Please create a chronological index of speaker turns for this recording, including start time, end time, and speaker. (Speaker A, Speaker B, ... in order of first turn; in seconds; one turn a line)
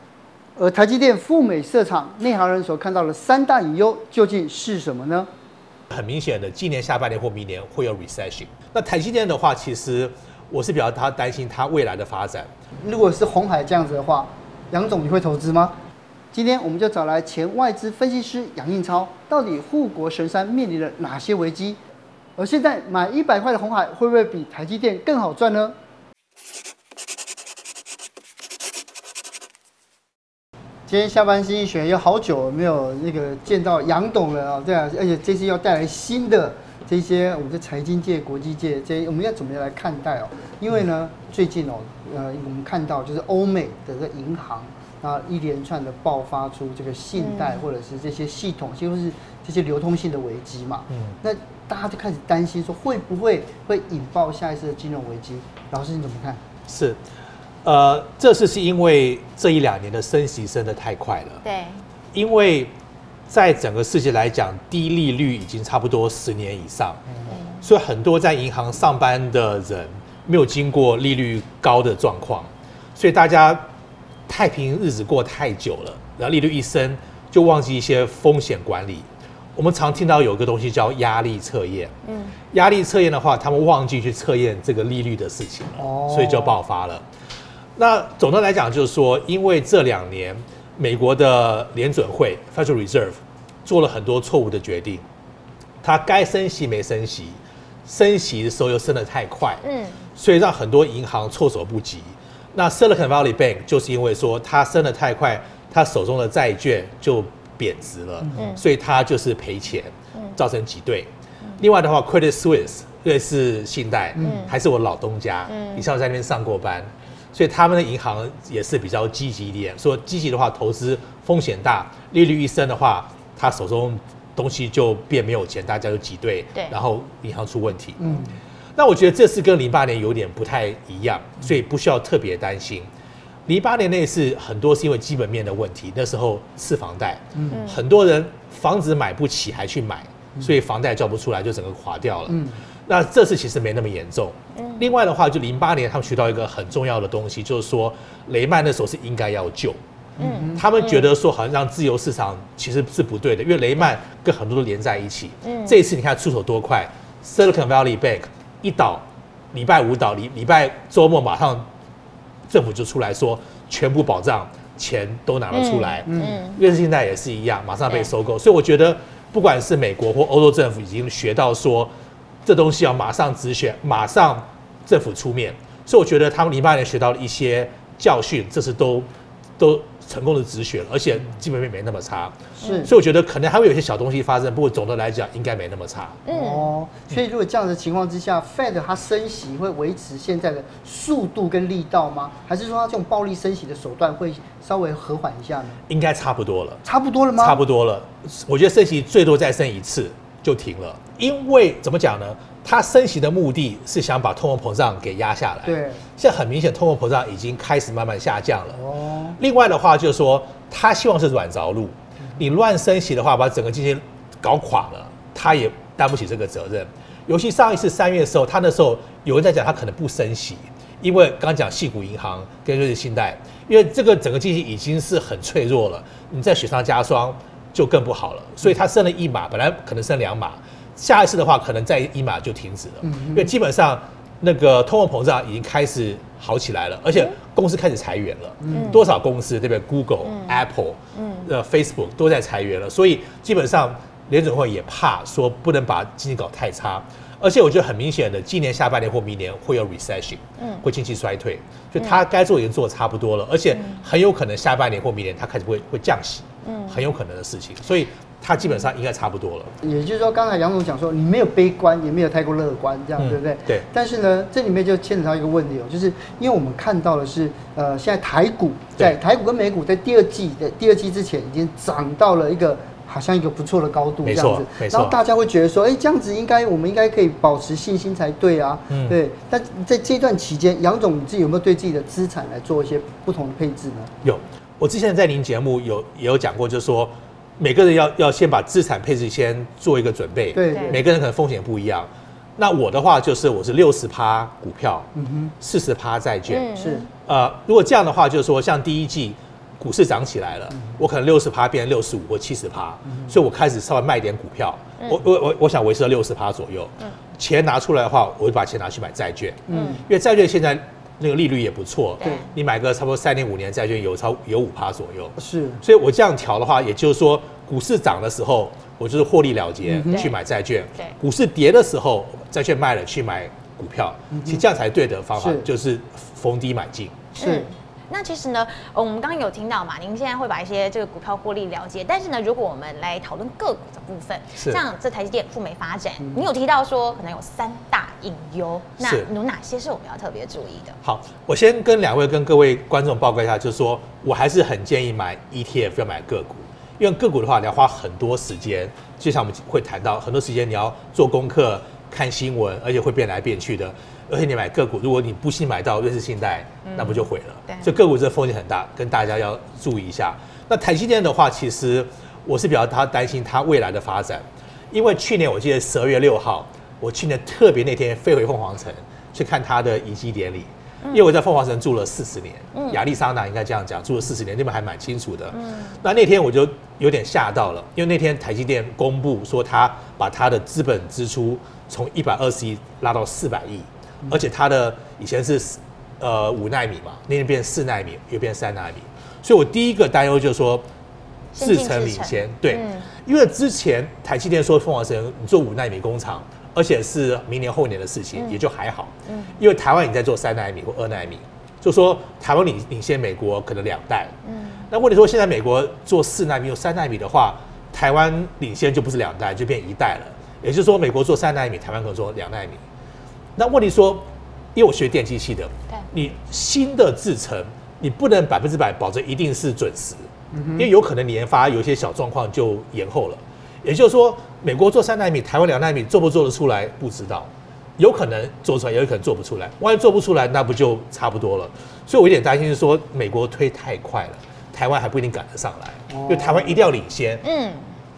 Speaker A: 0.6-5.3
Speaker B: 5.9-12.5
Speaker A: 12.8-15.8
Speaker A: 16.3-21.8
Speaker A: 22.4-25.8
Speaker A: 30.9-56.4
Speaker C: 47.2-47.6
Speaker B: 50.9-51.1
Speaker B: 56.7-57.0
Speaker B: 57.6-61.4
Speaker C: 61.4-61.8
Speaker B: 62.1-62.7
Speaker B: 63.3-67.0
Speaker C: 67.3-67.6
Speaker B: 67.6-73.6
Speaker B: 74.3-81.9
Speaker C: 82.0-82.3
Speaker B: 82.5-87.0
Speaker A: 85.8-86.5
Speaker B: 87.8-95.0
Speaker B: 95.8-99.6
Speaker C: 99.6-100.0
Speaker B: 100.2-128.0
Speaker C: 108.3-108.6
Speaker A: 114.2-114.5
Speaker C: 114.2-114.5
Speaker C: 115.5-115.9
Speaker A: 128.0-128.3
Speaker B: 128.8-132.9
Speaker B: 133.4-149.8
Speaker A: 137.3-137.6
Speaker C: 137.5-137.8
Speaker A: 142.3-142.6
Speaker C: 144.5-144.9
Speaker A: 150.2-150.6
Speaker C: 150.2-151.1
Speaker B: 150.5-161.7
Speaker C: 155.4-155.8
Speaker B: 162.5-171.9
Speaker C: 165.5-166.6
Speaker A: 166.1-166.4
Speaker C: 167.9-168.1
Speaker B: 172.4-186.2
Speaker A: 182.6-182.9
Speaker C: 182.6-182.9
Speaker C: 186.3-186.7
Speaker A: 186.3-195.8
Speaker B: 195.9-196.8
Speaker A: 196.8-197.6
Speaker B: 197.4-208.8
Speaker A: 205.6-206.0
Speaker A: 208.7-209.4
Speaker B: 209.4-259.7
Speaker A: 233.0-233.5
Speaker A: 238.6-239.0
Speaker C: 238.7-239.0
Speaker C: 240.2-240.6
Speaker C: 241.1-241.5
Speaker C: 250.6-250.8
Speaker C: 253.7-254.0
Speaker C: 256.6-257.0
Speaker A: 259.8-284.1
Speaker B: 263.2-263.9
Speaker B: 274.2-275.2
Speaker B: 278.9-279.2
Speaker B: 284.2-295.1
Speaker A: 290.5-291.0
Speaker C: 290.7-291.0
Speaker A: 295.1-295.5
Speaker B: 295.6-296.7
Speaker C: 296.5-297.1
Speaker A: 296.7-297.0
Speaker B: 297.2-327.3
Speaker A: 300.7-301.0
Speaker A: 309.7-310.0
Speaker C: 309.7-310.0
Speaker C: 312.2-312.5
Speaker A: 315.4-315.8
Speaker A: 319.8-320.3
Speaker C: 320.1-320.3
Speaker A: 324.3-324.6
Speaker A: 325.4-325.7
Speaker C: 327.4-341.0
Speaker A: 327.4-327.7
Speaker B: 334.6-334.8
Speaker B: 339.0-339.3
Speaker B: 341.0-390.9
Speaker C: 356.8-357.9
Speaker C: 372.7-373.0
Speaker C: 375.5-376.0
Speaker C: 391.5-393.1
Speaker B: 391.6-404.3
Speaker C: 398.3-398.6
Speaker C: 399.2-399.6
Speaker C: 404.4-404.9
Speaker B: 404.9-412.8
Speaker B: 413.6-437.4
Speaker A: 420.5-420.9
Speaker A: 436.1-436.8
Speaker C: 437.4-437.9